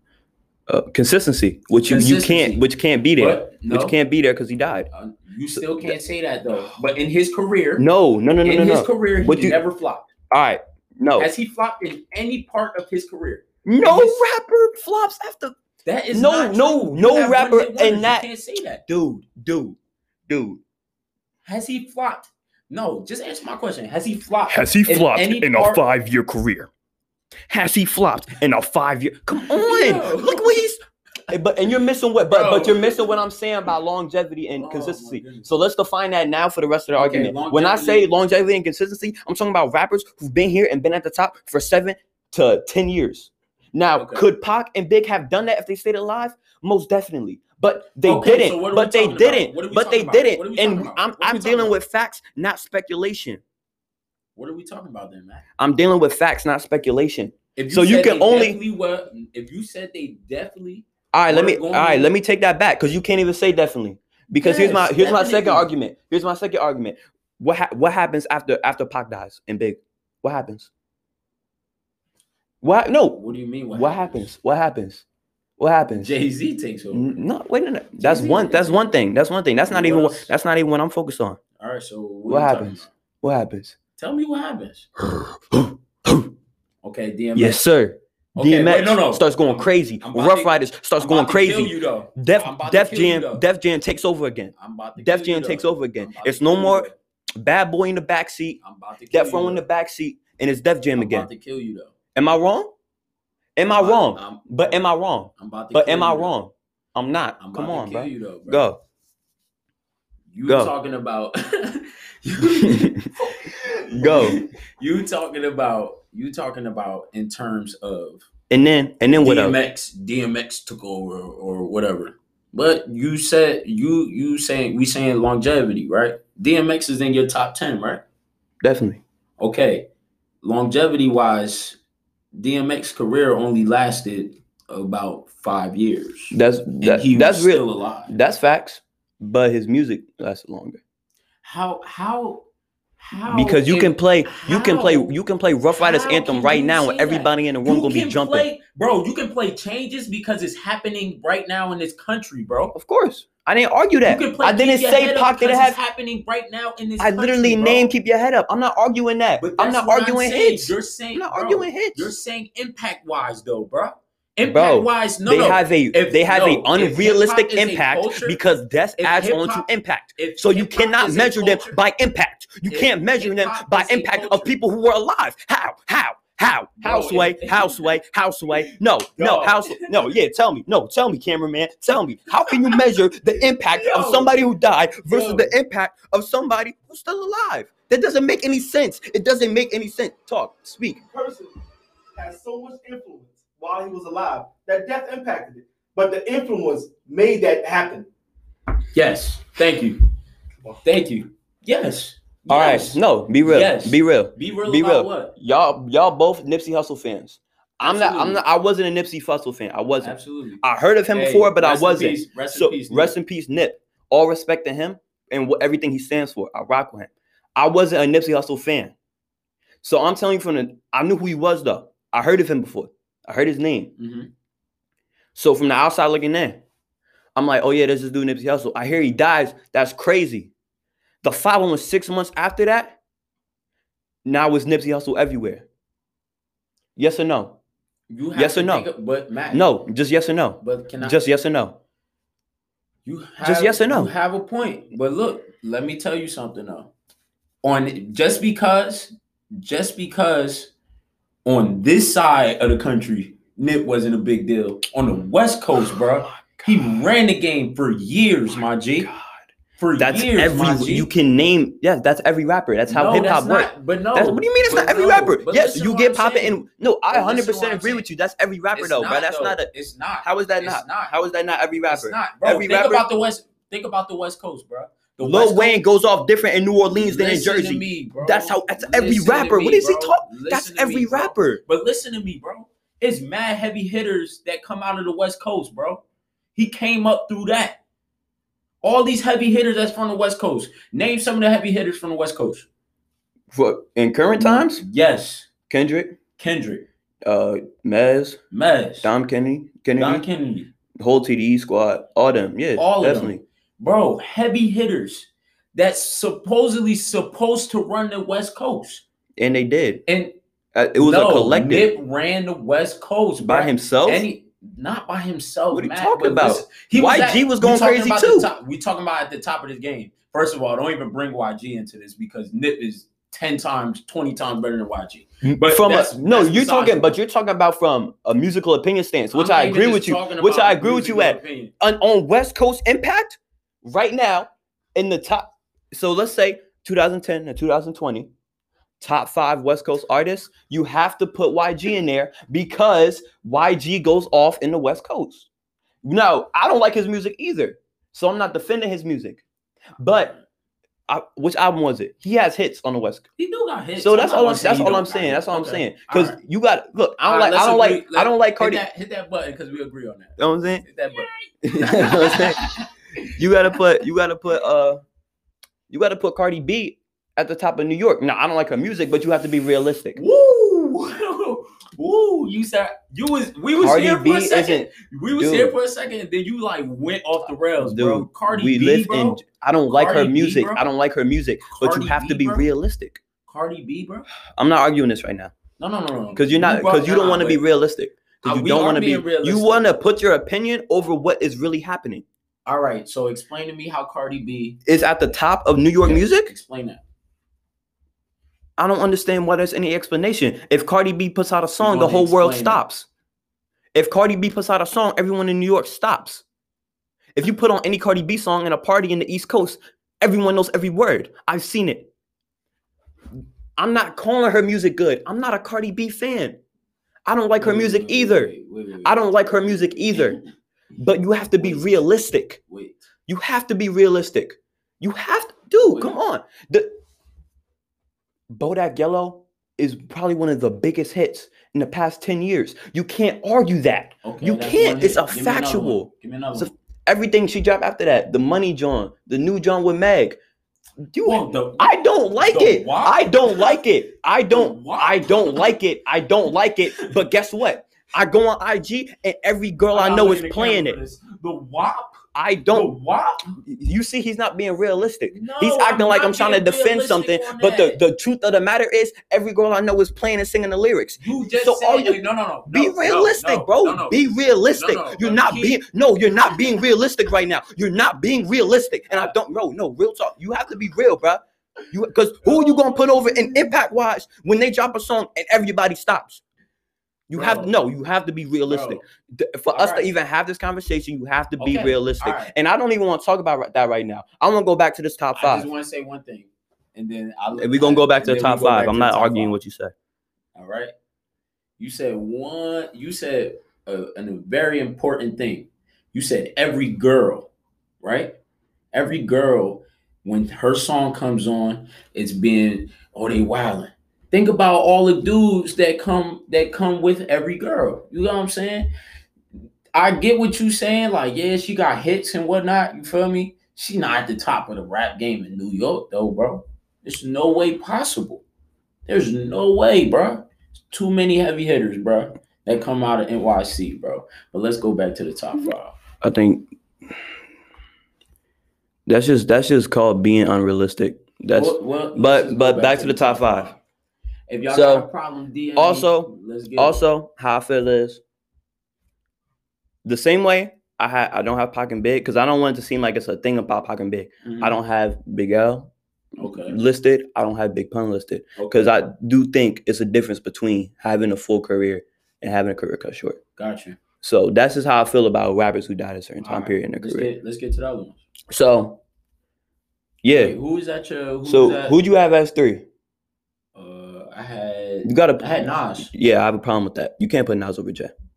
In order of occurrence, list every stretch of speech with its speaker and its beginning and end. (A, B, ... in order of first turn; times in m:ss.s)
0:00.7-0:04.9 A
0:01.9-0:02.6 B
0:03.2-0:03.9 B
0:04.9-0:07.9 B
0:05.5-0:06.0 A
0:07.8-0:09.6 A
0:08.4-0:10.1 B
0:10.3-0:11.3 A
0:11.2-0:14.3 B
0:13.6-0:15.6 A
0:15.8-0:18.8 B
0:16.1-0:18.3 A
0:18.9-0:20.6 A
0:21.4-0:25.8 B
0:24.5-0:26.7 A
0:27.5-0:30.8 A
0:29.4-0:30.6 B
0:31.3-0:53.4 A
0:32.2-0:33.2 B
0:34.6-0:35.6 B
0:37.0-0:38.1 B
0:44.0-0:44.3 B
0:48.0-0:51.8 B
0:54.4-0:55.4 B
0:55.6-0:58.6 A
0:57.6-1:02.1 B
1:01.1-1:10.7 A
1:04.4-1:05.7 B
1:12.6-1:13.2 A
1:13.1-1:14.3 B
1:13.7-1:15.0 A
1:15.6-1:16.1 A
1:16.0-1:17.2 B
1:16.9-1:21.4 A
1:18.0-1:18.9 B
1:19.7-1:20.3 B
1:21.6-1:22.9 B
1:22.3-1:23.8 A
1:24.0-1:24.9 B
1:25.0-1:26.3 A
1:26.8-1:27.6 B
1:27.4-1:36.9 A
1:28.4-1:33.4 B
1:34.6-1:37.0 B
1:37.4-1:41.3 A
1:38.6-1:39.7 B
1:41.0-1:41.9 B
1:42.2-1:42.7 A
1:43.6-1:48.8 A
1:43.7-1:44.4 B
1:45.4-1:46.3 B
1:47.4-1:48.7 B
1:50.3-1:58.3 B
1:50.5-1:50.7 A
1:52.6-1:53.1 A
1:53.8-1:54.4 A
1:58.5-1:59.6 A
1:59.1-2:08.0 B
2:08.6-2:09.0 A
2:09.4-2:09.9 B
2:10.4-2:11.8 B
2:12.4-2:18.1 B
2:16.3-2:20.8 A
2:21.4-2:22.5 B
2:23.0-2:25.2 B
2:23.2-2:28.5 A
2:25.8-2:32.7 B
2:32.7-2:35.8 A
2:34.0-2:37.9 B
2:37.0-2:42.1 A
2:39.4-2:48.4 B
2:44.4-3:11.0 A
2:49.0-2:51.8 B
2:52.7-2:54.6 B
2:56.8-2:58.0 B
2:58.5-3:00.2 B
3:02.5-3:03.0 B
3:03.5-3:04.4 B
3:05.0-3:05.6 B
3:11.1-3:11.6 C
3:12.2-3:18.1 C
3:19.0-3:20.0 B
3:20.8-3:25.3 B
3:22.5-3:38.9 A
3:27.8-3:28.4 B
3:30.0-3:33.2 B
3:39.8-3:43.9 A
3:44.0-3:44.3 B
3:45.4-3:46.6 A
3:47.4-3:50.5 A
3:51.2-3:53.0 A
3:54.2-3:55.7 A
3:57.0-3:57.6 A
3:58.1-3:59.7 B
3:58.4-3:58.9 A
3:59.5-4:01.8 A
4:00.6-4:01.2 B
4:03.0-4:06.9 B
4:03.4-4:04.1 A
4:07.6-4:10.7 B
4:11.4-4:19.1 B
4:16.3-4:16.9 A
4:19.0-4:19.4 A
4:19.8-4:21.1 B
4:20.0-4:29.7 A
4:22.9-4:28.1 B
4:28.7-4:31.1 B
4:30.2-4:33.1 A
4:31.9-4:35.8 B
4:35.2-4:41.6 A
4:36.9-4:46.0 B
4:46.6-4:47.8 B
4:48.8-4:52.7 B
4:53.5-4:54.8 A
4:54.4-4:55.5 B
4:55.7-4:56.2 A
4:56.4-4:56.8 B
4:57.2-4:58.4 A
4:58.5-4:59.1 B
4:59.0-5:00.2 A
5:00.0-5:00.7 B
5:01.0-5:03.4 A
5:02.8-5:09.0 B
5:09.4-5:10.0 A
5:10.1-5:10.4 B
5:10.7-5:11.9 A
5:11.0-5:27.2 B
5:13.4-5:14.2 A
5:15.7-5:18.5 A
5:25.4-5:38.3 A
5:29.3-5:31.7 B
5:39.0-5:45.5 A
5:46.0-5:49.4 A
5:50.0-5:50.3 A
5:50.0-5:50.4 B
5:51.1-5:53.2 A
5:53.4-5:56.4 B
5:54.0-5:58.8 A
5:57.2-6:02.9 B
6:00.4-6:00.8 A
6:01.6-6:02.8 A
6:03.3-6:05.0 A
6:05.9-6:10.2 A
6:10.2-6:20.9 B
6:13.8-6:15.7 A
6:17.8-6:23.2 A
6:21.7-6:22.7 B
6:23.5-6:24.3 B
6:24.6-6:25.5 A
6:25.8-6:27.6 B
6:26.4-6:32.2 A
6:28.4-6:29.9 B
6:32.6-6:34.8 B
6:34.8-6:36.5 A
6:36.0-6:37.0 B
6:38.8-6:43.1 A
6:41.8-6:42.8 B
6:43.9-6:46.4 A
6:47.4-6:52.1 A
6:53.8-6:56.6 A
6:57.3-6:58.5 A
6:57.6-7:00.4 B
6:59.0-7:00.4 A
7:01.0-7:02.6 A
7:01.6-7:01.9 B
7:02.6-7:03.0 B
7:03.3-7:06.9 A
7:05.9-7:06.2 B
7:08.5-7:20.4 A
7:14.2-7:16.7 B
7:21.0-7:31.0 A
7:21.2-7:23.8 B
7:24.5-7:25.8 B
7:29.9-7:33.6 B
7:32.4-7:32.9 A
7:33.6-7:56.4 A
7:35.3-7:38.0 B
7:41.2-7:45.8 B
7:46.4-7:46.9 B
7:52.4-7:53.7 B
7:57.3-8:05.7 A
7:57.3-7:57.7 B
7:58.7-7:59.0 B
7:59.7-8:00.1 B
8:01.6-8:02.5 B
8:05.4-8:09.6 B
8:07.6-8:09.9 A
8:10.6-8:10.9 B
8:11.8-8:17.5 B
8:18.0-8:18.4 B
8:18.9-8:28.9 B
8:29.9-8:38.4 B
8:39.1-8:46.0 B
8:46.2-8:46.7 A
8:49.1-8:53.7 A
8:51.5-8:53.8 B
8:54.5-8:57.0 B
8:54.7-8:55.1 A
8:55.8-8:58.2 A
9:00.0-9:05.9 A
9:04.4-9:04.8 B
9:06.4-9:06.8 B
9:06.4-9:13.4 A
9:08.6-9:09.0 B
9:13.6-9:14.0 B
9:14.2-9:17.3 A
9:16.4-9:18.2 B
9:18.5-9:19.0 A
9:20.2-9:20.6 A
9:20.3-9:22.0 B
9:21.4-9:22.8 A
9:23.7-9:26.1 B
9:25.0-9:28.1 A